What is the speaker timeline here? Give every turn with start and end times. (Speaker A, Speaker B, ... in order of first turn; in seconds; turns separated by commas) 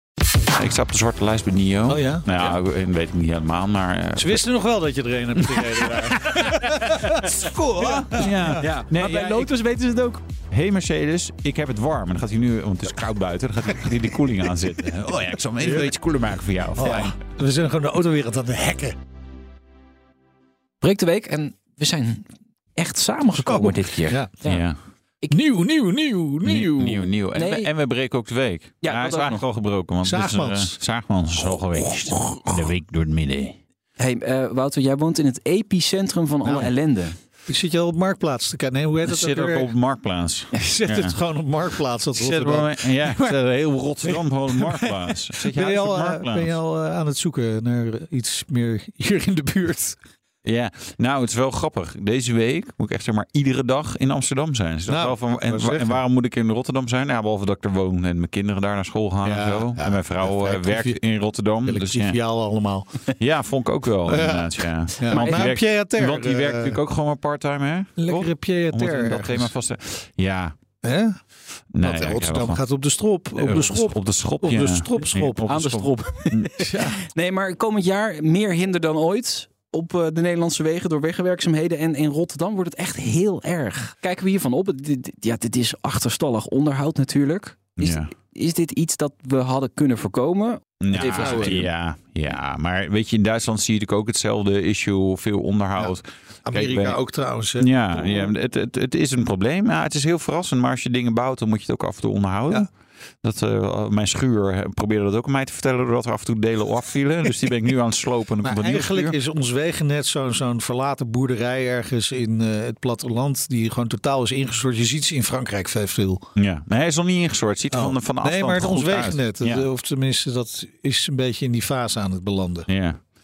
Speaker A: 0.6-4.4, Speaker B: 1.9-2.3, Speaker B: 4.2-8.7, Speaker A: 5.5-9.5, Speaker C: 8.6-10.2, Speaker A: 10.5-17.1, Speaker B: 15.6-15.9, Speaker B: 16.8-19.0, Speaker C: 16.8-17.1, Speaker C: 20.8-24.6, Speaker B: 23.5-24.3, Speaker A: 24.4-24.8, Speaker B: 25.3-27.1, Speaker A: 26.4-33.6, Speaker C: 27.4-27.7, Speaker C: 28.8-29.4, Speaker B: 30.0-30.8, Speaker B: 31.8-32.5, Speaker C: 34.0-37.1, Speaker B: 36.4-36.7, Speaker B: 37.5-39.7, Speaker A: 39.0-41.2, Speaker B: 40.5-43.4, Speaker A: 42.1-46.5, Speaker B: 44.0-50.0, Speaker A: 50.4-62.2, Speaker B: 54.9-56.0, Speaker B: 59.2-61.0, Speaker B: 61.6-63.0, Speaker A: 63.2-70.5, Speaker B: 64.1-66.8, Speaker C: 65.1-65.5, Speaker B: 68.0-69.5, Speaker B: 70.8-71.2, Speaker A: 71.7-72.6, Speaker B: 71.8-75.4, Speaker A: 73.4-76.7, Speaker C: 75.5-91.7, Speaker B: 76.6-77.0, Speaker A: 87.8-88.1, Speaker A: 90.8-97.0, Speaker B: 91.0-91.7, Speaker B: 95.8-98.3, Speaker A: 97.6-102.7, Speaker A: 103.2-109.2, Speaker B: 108.4-116.2, Speaker A: 116.4-119.7, Speaker B: 117.7-122.7, Speaker A: 122.7-123.0